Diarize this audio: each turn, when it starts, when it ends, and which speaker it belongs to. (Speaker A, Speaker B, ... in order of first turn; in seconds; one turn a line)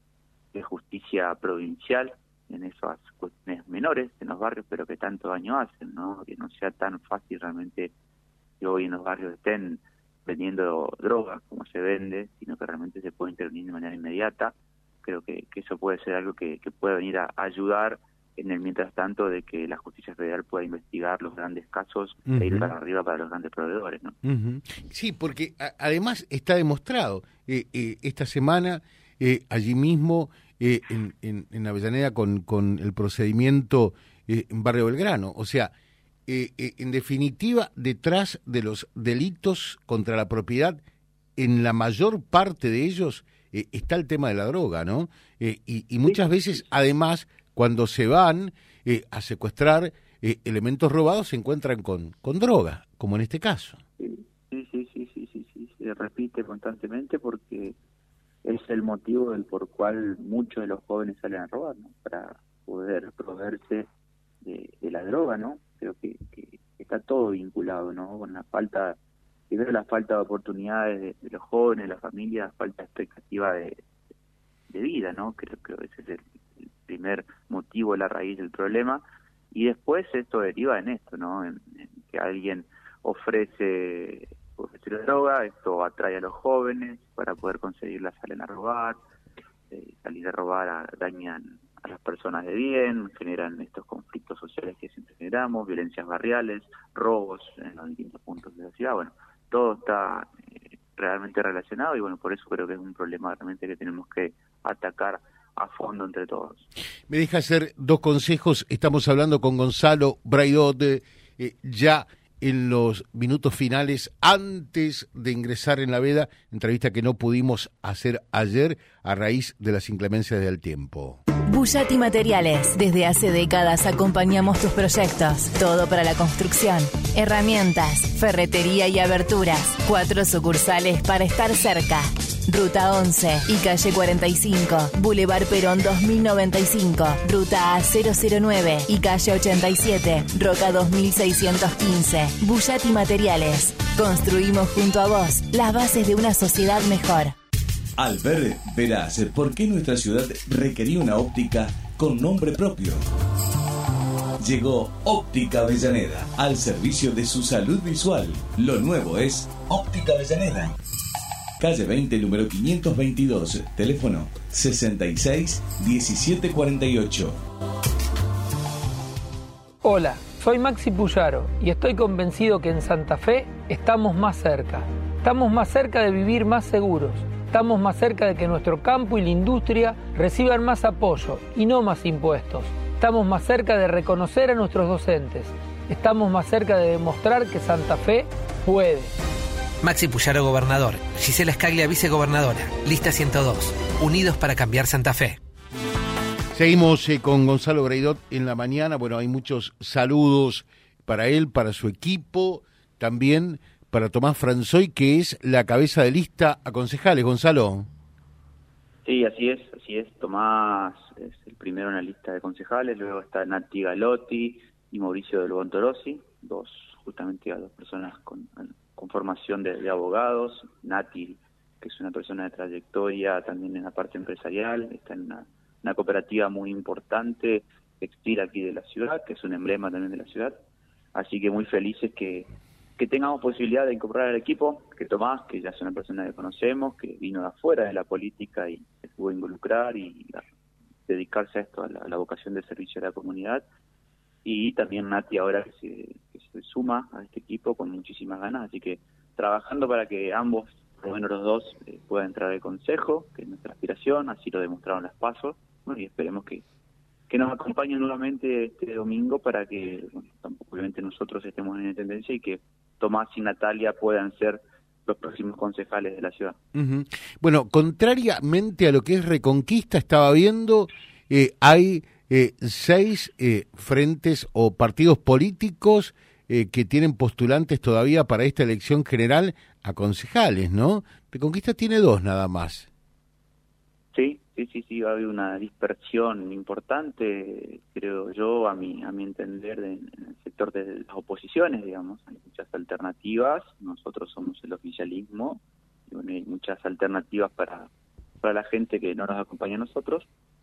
Speaker A: 0.5-7.9
Speaker A: 8.6-24.1
Speaker B: 22.3-22.7
Speaker B: 24.2-35.7
Speaker B: 36.3-40.8
Speaker B: 41.4-53.8
Speaker A: 54.0-57.8
Speaker A: 58.4-63.9
Speaker A: 64.4-69.0
Speaker A: 69.5-73.8
Speaker A: 74.7-76.2
Speaker A: 76.8-89.0
Speaker A: 89.7-100.3
Speaker A: 100.9-106.7
Speaker B: 107.1-121.2
Speaker C: 121.5-147.3
Speaker D: 148.0-153.0
Speaker D: 154.4-160.8
Speaker D: 161.6-167.3
Speaker E: 169.8-189.1
Speaker F: 189.8-195.4
Speaker B: 196.5-207.9
Speaker A: 209.1-230.6
Speaker A: 231.2-240.4
Speaker A: 241.1-243.6
Speaker A: 244.4-256.6
Speaker A: 257.3-266.6
Speaker B: 266.8-282.9
Speaker A: 284.1-297.9
Speaker A: 298.4-300.3